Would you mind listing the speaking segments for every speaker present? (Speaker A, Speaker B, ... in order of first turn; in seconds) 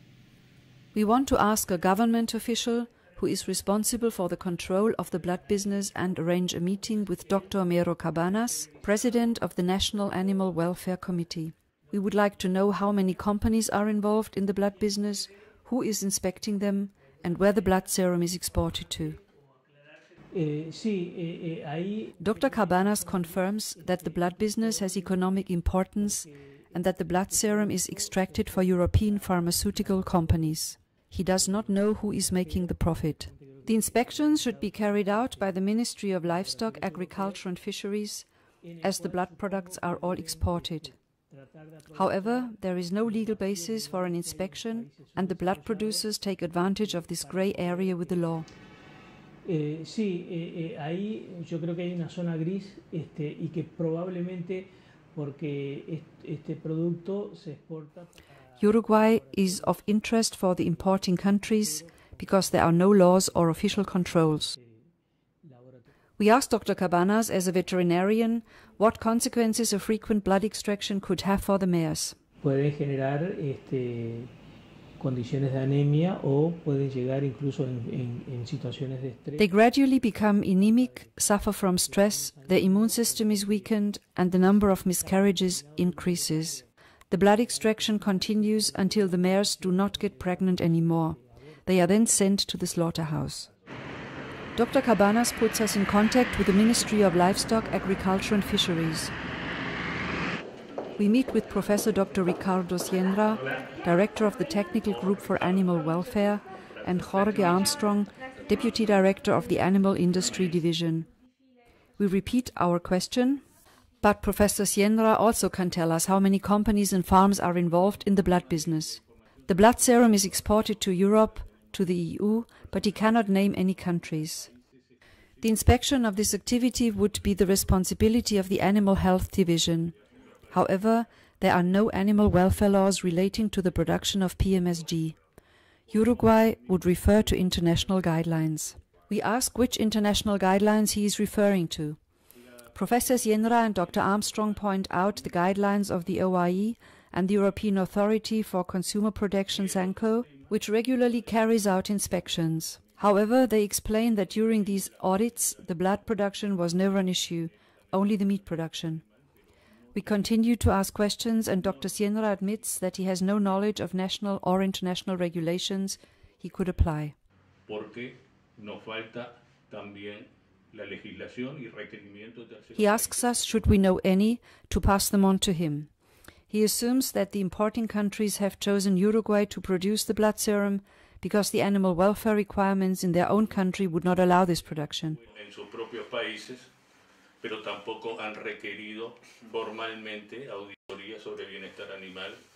Speaker A: 0.9-19.2, 22.2-38.3, 38.8-41.0, 41.9-48.5, 58.6-64.5, 66.2-72.2, 79.4-93.5, 94.5-99.1, 101.0-111.1, 112.0-113.4, 114.0-124.5, 125.4-130.0, 130.5-135.2, 135.9-142.0, 142.7-159.0, 159.9-167.2, 172.8-175.9, 176.5-185.2
Speaker B: 17.2-17.7, 19.2-25.3, 26.0-30.3, 31.4-35.6, 36.3-37.4, 38.7-48.4, 49.5-59.8, 65.4-65.8, 72.4-74.3, 75.0-79.4, 80.6-81.0, 81.9-83.8, 85.0-86.7, 87.5-91.6
Speaker C: 103.4-103.8, 104.8-105.7, 106.7-107.9, 118.2-120.8, 167.7-173.1, 185.3-186.7, 187.4-192.4